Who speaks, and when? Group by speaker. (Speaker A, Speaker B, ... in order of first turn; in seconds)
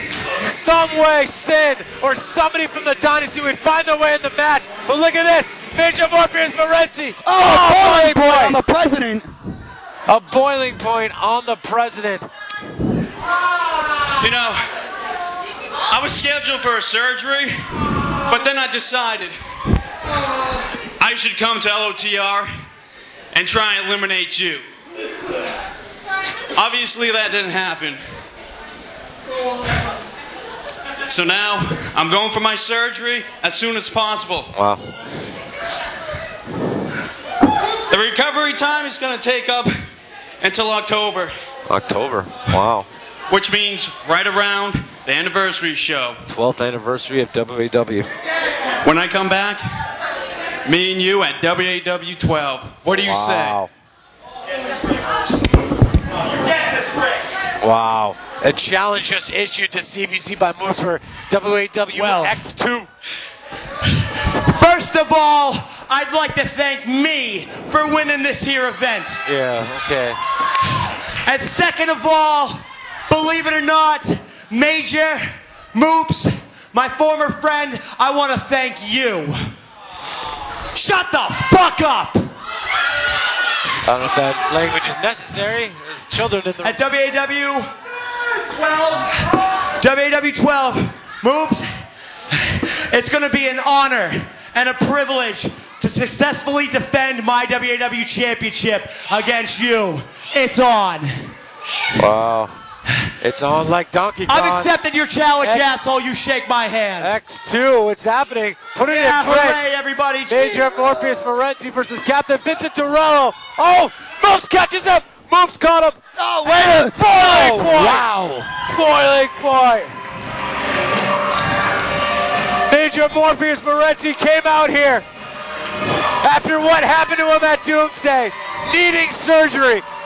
Speaker A: 0.4-8.6, 10.1-12.3, 34.5-34.8, 41.7-42.9, 46.3-48.1, 53.0-53.7, 57.6-62.9, 69.2-70.2, 83.8-86.8, 102.0-102.5, 103.2-104.7, 105.4-105.8, 107.0-109.7, 110.3-119.9, 122.7-125.0, 126.2-129.8
Speaker B: 7.2-9.3, 116.2-118.3
Speaker C: 14.2-14.6, 15.9-17.6, 18.3-19.4, 21.0-22.5, 23.3-24.6, 26.5-28.0, 31.1-34.5, 37.9-39.7, 40.4-41.3, 43.3-46.2, 48.8-49.6, 50.6-53.6
Speaker D: 61.9-62.4, 64.5-69.2, 71.2-79.5, 80.7-82.3, 86.6-87.7, 88.5-91.7, 92.3-101.3, 104.3-107.1, 108.8-111.2